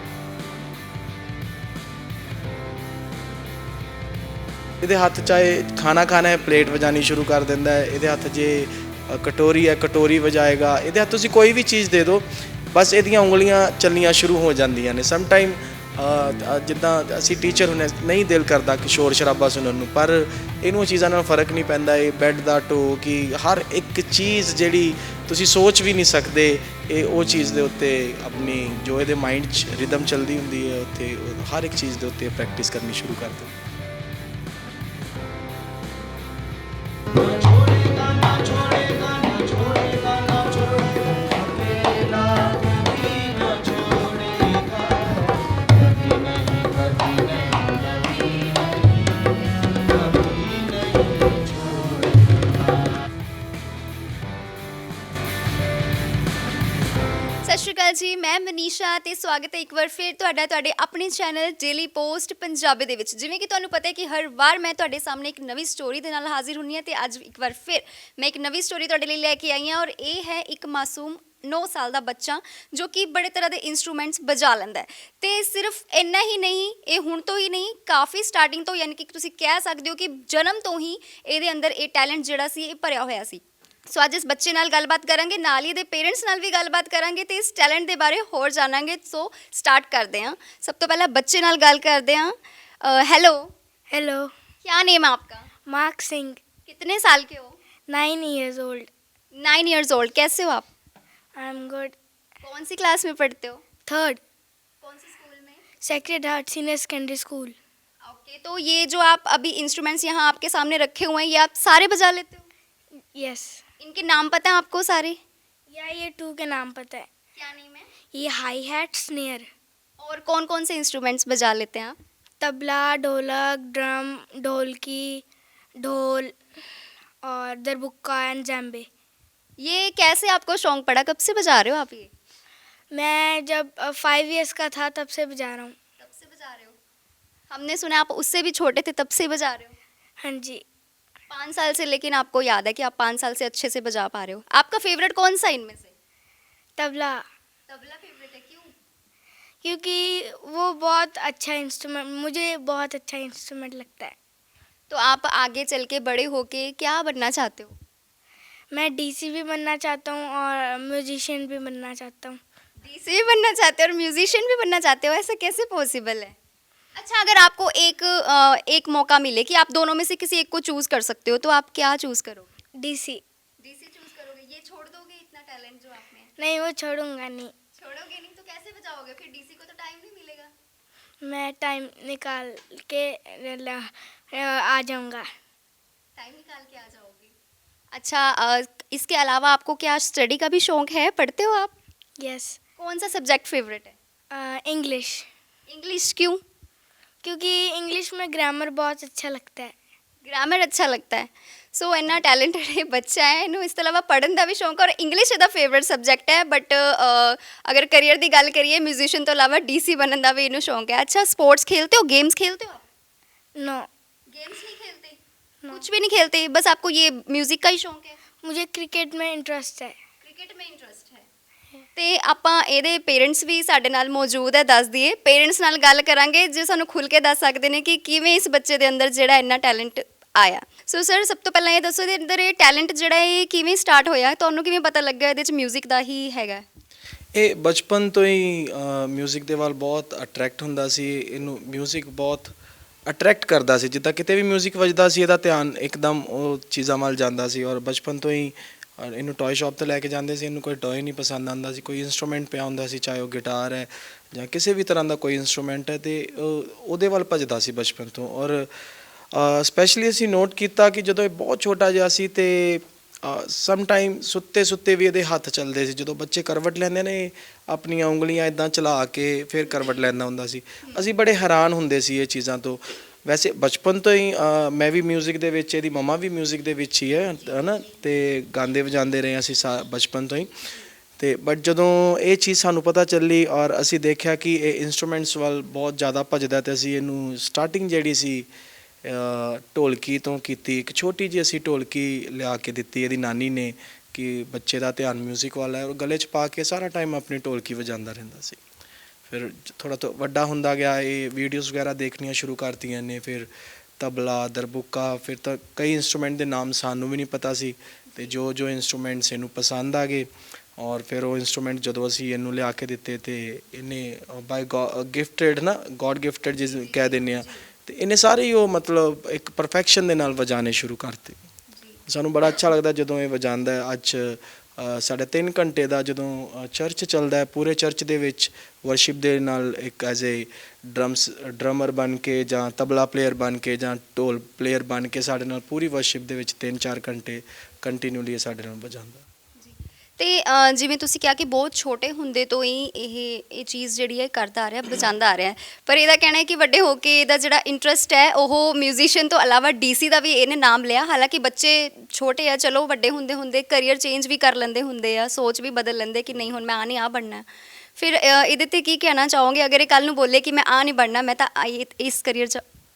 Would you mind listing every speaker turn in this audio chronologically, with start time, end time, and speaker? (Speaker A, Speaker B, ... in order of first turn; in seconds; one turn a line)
Speaker A: 4.8-33.5
Speaker A: 39.3-40.2
Speaker A: 43.8-44.5
Speaker A: 46.4-46.7
Speaker B: 57.5-93.5
Speaker C: 93.9-94.3
Speaker B: 94.6-95.5
Speaker C: 95.7-96.4
Speaker B: 96.7-97.6
Speaker C: 97.9-98.9
Speaker B: 99.3-100.7
Speaker C: 101.4-102.0
Speaker B: 102.4-103.6
Speaker C: 103.9-104.2
Speaker B: 104.8-105.6
Speaker C: 105.8-107.6
Speaker B: 108.0-112.5
Speaker C: 113.1-113.6
Speaker B: 113.8-115.2
Speaker C: 115.7-117.1
Speaker B: 117.4-117.9
Speaker C: 118.1-119.5
Speaker B: 120.0-122.0
Speaker C: 122.4-125.2
Speaker C: 125.8-126.4
Speaker C: 127.2-128.9
Speaker B: 129.6-132.1
Speaker C: 132.9-135.8
Speaker B: 136.0-136.8
Speaker B: 137.5-139.8
Speaker C: 140.2-140.6
Speaker B: 141.3-145.9
Speaker C: 146.8-147.2
Speaker B: 147.7-148.7
Speaker C: 149.6-154.2
Speaker B: 154.9-157.8
Speaker C: 158.7-162.4
Speaker B: 162.8-166.3
Speaker B: 166.9-172.5
Speaker C: 172.8-173.2
Speaker B: 173.6-176.3
Speaker C: 176.4-177.5
Speaker B: 177.8-180.5
Speaker C: 181.2-185.3
Speaker B: 186.2-187.3
Speaker B: 187.9-191.7
Speaker C: 192.2-192.6
Speaker B: 192.8-193.9
Speaker C: 194.3-195.3
Speaker B: 195.7-196.4
Speaker C: 197.2-199.8
Speaker B: 200.2-212.8
Speaker C: 213.6-213.9
Speaker B: 214.3-215.2
Speaker B: 215.7-218.2
Speaker C: 218.4-220.0
Speaker B: 220.2-221.3
Speaker B: 222.0-236.6
Speaker A: 237.3-242.5
Speaker A: 243.1-258.7
Speaker A: 259.3-280.5
Speaker A: 281.2-288.5
Speaker A: 289.1-298.6
Speaker A: 299.3-310.3
Speaker A: 310.8-321.4
Speaker B: 316.6-317.6
Speaker A: 322.1-339.2
Speaker B: 339.6-357.4
Speaker B: 358.0-362.6